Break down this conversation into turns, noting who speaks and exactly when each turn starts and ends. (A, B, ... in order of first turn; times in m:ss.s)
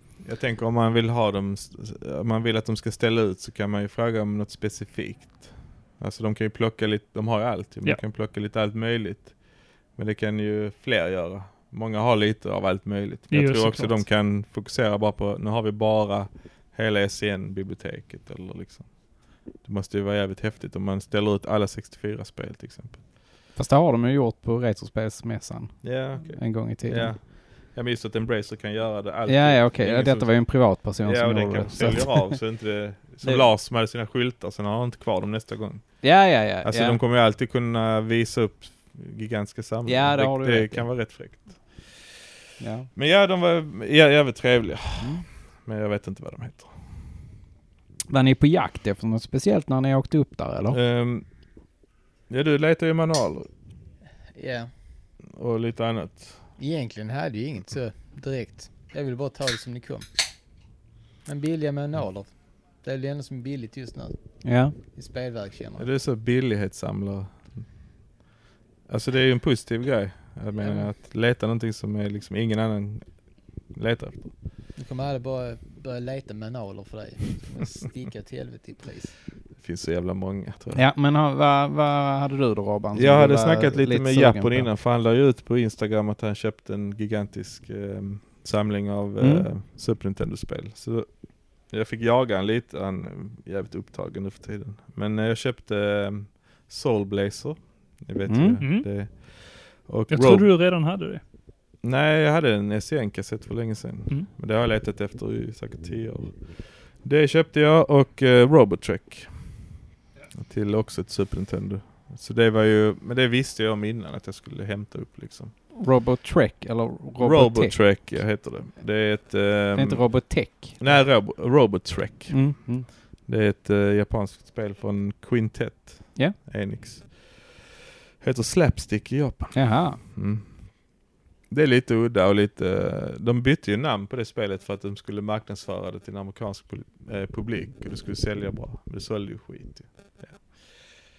0:00.2-0:09.4 A
0:09.9-0:23.0 A
0:13.3-0:14.0 B
0:23.6-0:27.2 C
0:25.8-0:42.0 A
0:29.3-0:32.4 C
0:36.0-0:37.0 C
0:39.9-0:40.9 C
0:42.6-0:42.9 C
0:42.9-0:46.7 A
0:45.0-0:45.3 C
0:48.1-0:50.8 C
0:50.7-0:51.2 A
0:52.3-0:53.5 A
0:54.4-0:54.7 D
0:55.3-0:56.4 A
0:56.6-1:00.1 D
1:01.2-1:05.8 D
1:04.4-1:04.7 C
1:05.8-1:07.6 A
1:08.9-1:14.3 A
1:14.8-1:19.1 D
1:19.6-1:20.8 A
1:20.7-1:24.7 C
1:22.9-1:40.5 A
1:29.2-1:29.5 C
1:38.3-1:38.6 C
1:38.6-1:38.9 B
1:40.1-1:41.2 B
1:41.8-1:49.3 A
1:50.4-1:55.5 A
1:55.8-1:58.0 C
1:57.2-2:07.6 A
1:59.7-2:00.9 C
2:02.3-2:02.9 C
2:08.2-2:20.8 A
2:09.5-2:10.0 C